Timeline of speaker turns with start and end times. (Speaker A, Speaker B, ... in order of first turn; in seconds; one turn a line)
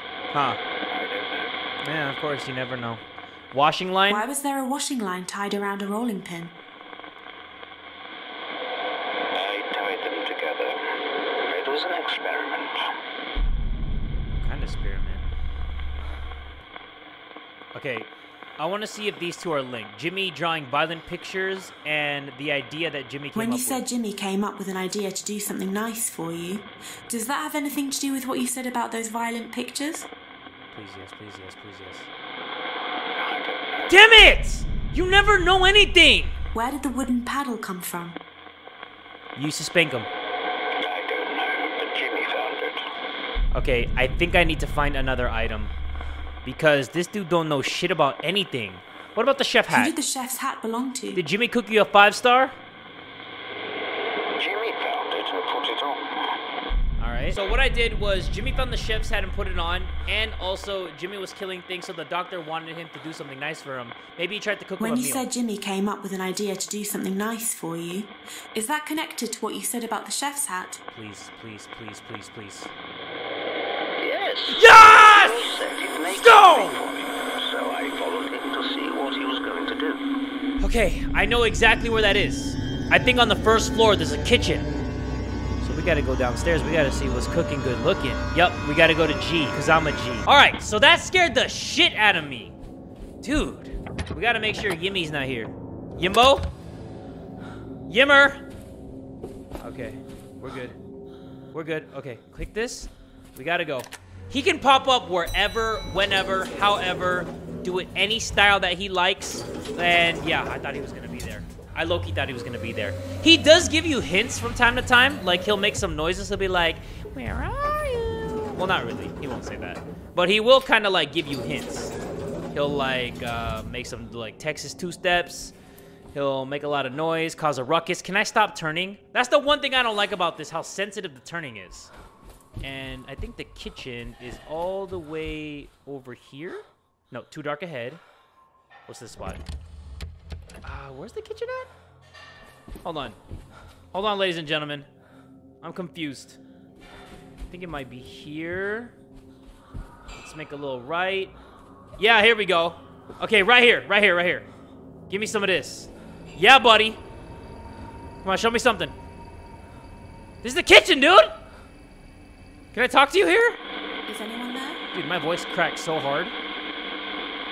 Speaker A: 0.3-0.6
Speaker B: 0.9-1.5
Speaker A: 1.8-4.2
Speaker C: 4.1-6.5
Speaker B: 9.3-10.8
Speaker B: 11.4-12.8
Speaker A: 14.4-15.2
Speaker A: 17.7-23.8
Speaker C: 23.3-30.1
Speaker A: 30.7-32.1
Speaker B: 33.2-33.7
Speaker A: 33.9-36.3
Speaker C: 36.5-38.2
Speaker A: 39.4-40.1
Speaker B: 40.7-42.8
Speaker A: 43.5-45.7
Speaker A: 46.4-49.9
Speaker C: 49.7-51.2
Speaker A: 51.1-52.5
Speaker B: 54.4-56.4
Speaker A: 57.0-65.2
Speaker C: 64.8-70.8
Speaker A: 70.9-72.7
Speaker B: 74.0-80.1
Speaker A: 74.5-75.5
Speaker A: 76.1-76.8
Speaker A: 80.6-84.7
Speaker A: 85.6-92.5
Speaker A: 93.2-96.5
Speaker A: 97.9-98.4
Speaker A: 99.6-100.8
Speaker A: 101.5-121.9
Speaker A: 122.5-125.5
Speaker A: 126.1-131.9
Speaker A: 132.6-138.0
Speaker A: 138.9-139.4
Speaker A: 140.6-141.7
Speaker A: 142.8-143.2
Speaker A: 143.9-144.9
Speaker A: 145.6-146.4
Speaker A: 147.5-148.9
Speaker A: 150.1-151.3
Speaker A: 152.0-154.5
Speaker A: 155.1-157.0
Speaker A: 158.2-158.9
Speaker A: 160.4-161.3
Speaker A: 162.7-163.6
Speaker C: 164.1-164.8
Speaker A: 164.9-166.3